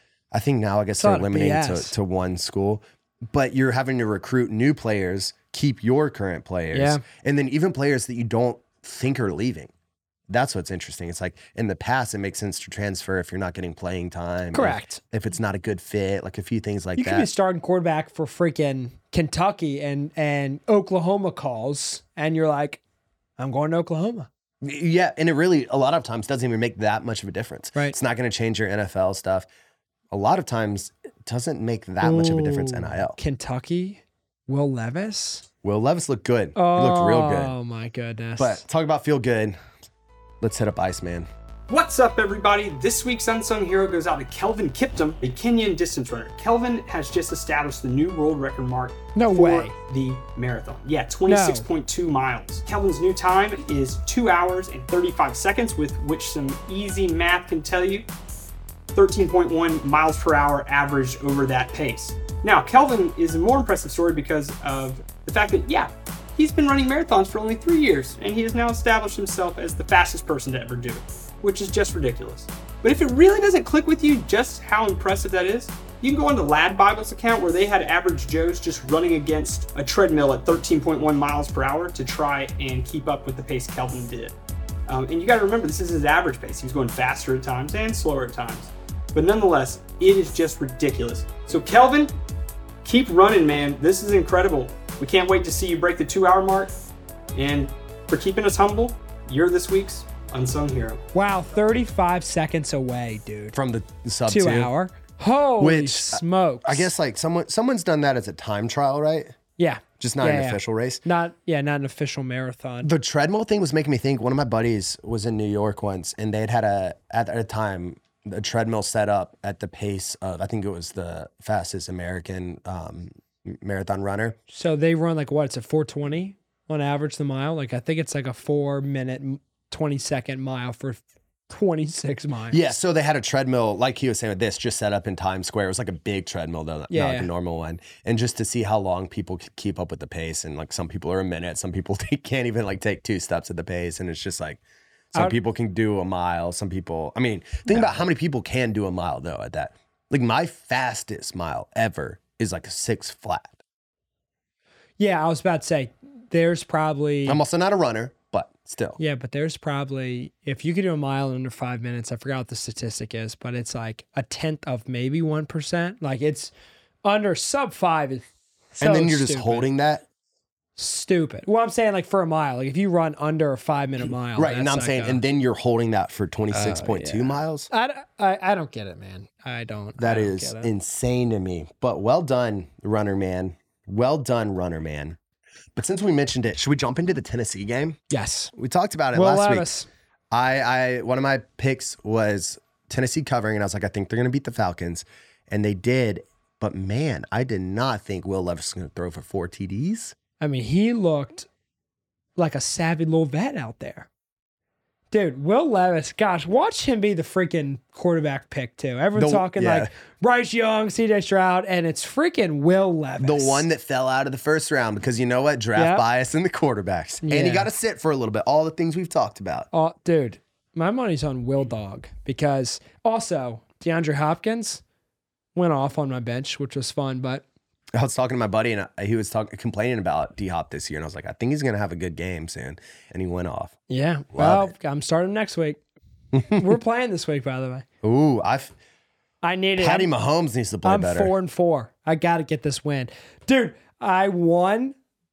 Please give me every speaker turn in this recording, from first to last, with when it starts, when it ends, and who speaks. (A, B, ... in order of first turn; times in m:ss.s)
0:00.3-0:09.7 A
0:01.0-0:01.9 B
0:06.7-0:07.0 B
0:10.3-0:17.3 A
0:14.5-0:15.0 B
0:17.0-0:22.8 B
0:23.4-0:24.3 B
0:24.6-0:29.5 A
0:30.1-0:33.2 A
0:32.0-0:35.4 B
0:35.6-0:37.5 A
0:36.5-0:38.6 B
0:38.4-0:39.6 A
0:40.4-0:41.3 A
0:41.7-0:58.1 C
0:49.1-0:49.7 B
0:51.3-0:51.7 B
0:58.9-1:24.3 C
1:24.9-1:32.1 C
1:32.8-1:36.7 C
1:37.3-1:41.0 C
1:41.1-1:43.6 B
1:43.5-1:44.7 A
1:44.3-1:46.9 B
1:45.6-1:49.4 A
1:49.6-1:52.9 B
1:50.0-1:51.0 A
1:52.8-2:04.4 A
2:04.5-2:12.6 B
2:12.5-2:33.6 A
2:16.9-2:17.3 B
2:27.7-2:28.0 B
2:35.0-2:37.4 B
2:37.2-2:39.0 A
2:39.0-2:46.5 B
2:47.0-2:48.2 B
2:48.8-2:50.0 A
2:48.8-2:49.7 B
2:50.8-2:55.2 B
2:54.3-2:57.7 A
2:56.5-3:00.7 B
3:00.0-3:05.2 A
3:05.8-3:08.0 A
3:08.1-3:08.5 B
3:08.5-3:09.7 A
3:09.1-3:09.9 B
3:10.3-3:20.2 A
3:20.4-3:21.5 B
3:22.4-3:24.1 B
3:25.1-3:33.6 B
3:29.1-3:29.9 A
3:33.2-3:39.7 A
3:35.7-3:36.0 B
3:37.2-3:37.7 B
3:39.7-3:44.8 B
3:45.5-3:47.4 B
3:47.9-3:53.8 A
3:53.9-3:55.8 B
3:54.3-3:54.7 A
3:56.3-3:56.7 A
3:56.5-3:57.8 B
3:58.0-3:58.7 A
3:59.4-4:00.1 B
3:59.8-4:01.3 A
4:00.8-4:05.0 B